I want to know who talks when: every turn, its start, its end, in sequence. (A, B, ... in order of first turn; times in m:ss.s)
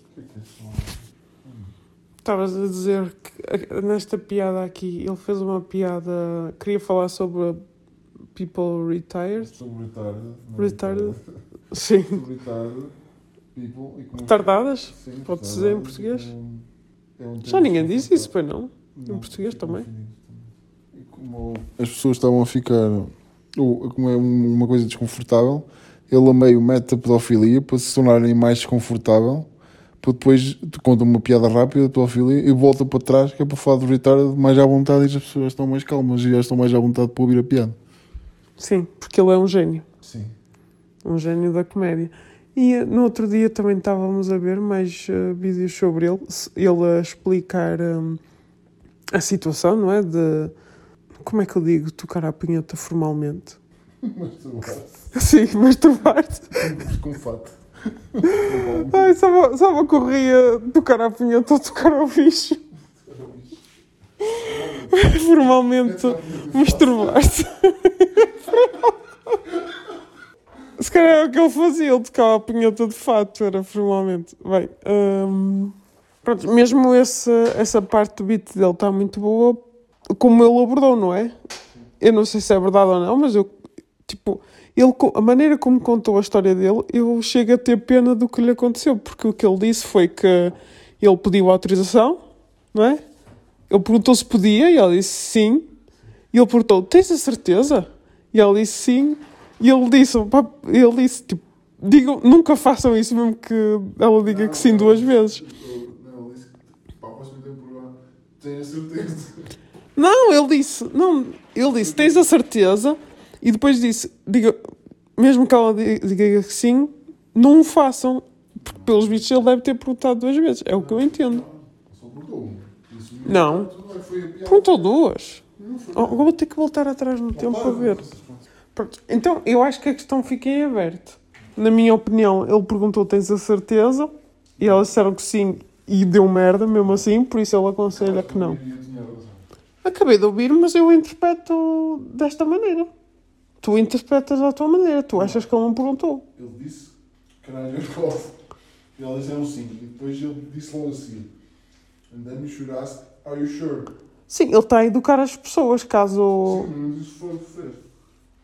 0:00.1-0:01.7 A
0:02.2-0:07.6 B
0:08.4-0:09.5 B
0:09.4-0:11.3 A
0:10.6-0:11.2 B
0:11.7-0:12.2 B
0:12.1-0:12.9 A
0:13.5-0:16.7 A
0:14.2-0:16.3 B
0:17.2-0:18.3 A
0:17.4-0:19.9 B
0:19.0-0:29.5 A
0:30.0-0:37.8 A
0:38.6-0:39.8 B
0:40.0-0:40.3 A
0:41.0-0:48.2 B
0:49.1-0:50.5 B
0:51.2-0:53.6 B
0:54.0-0:55.1 A
0:55.1-0:56.6 B
0:56.5-0:59.2 A
0:58.4-1:02.6 B
1:02.9-1:03.6 A
1:04.2-1:08.9 B
1:04.3-1:07.3 A
1:10.8-1:21.3 B
1:22.0-1:23.5 B
1:24.1-1:32.2 B
1:32.7-1:33.0 B
1:33.7-1:35.7 B
1:36.3-1:45.4 B
1:44.2-1:49.5 A
1:50.0-1:54.6 B
1:51.6-1:52.3 A
1:55.2-2:01.4 B
1:58.6-1:59.3 A
2:00.7-2:04.9 A
2:03.2-2:03.7 B
2:04.4-2:08.1 B
2:05.6-2:06.3 A
2:07.3-2:08.4 A
2:08.8-2:18.6 B
2:14.6-2:14.9 A
2:17.9-2:19.4 A
2:19.8-2:22.9 B
2:23.6-2:26.2 B
2:25.2-2:25.5 A
2:26.4-2:28.3 A
2:29.0-2:31.3 A
2:32.1-2:33.9 A
2:34.3-2:36.7 B
2:36.5-2:37.8 A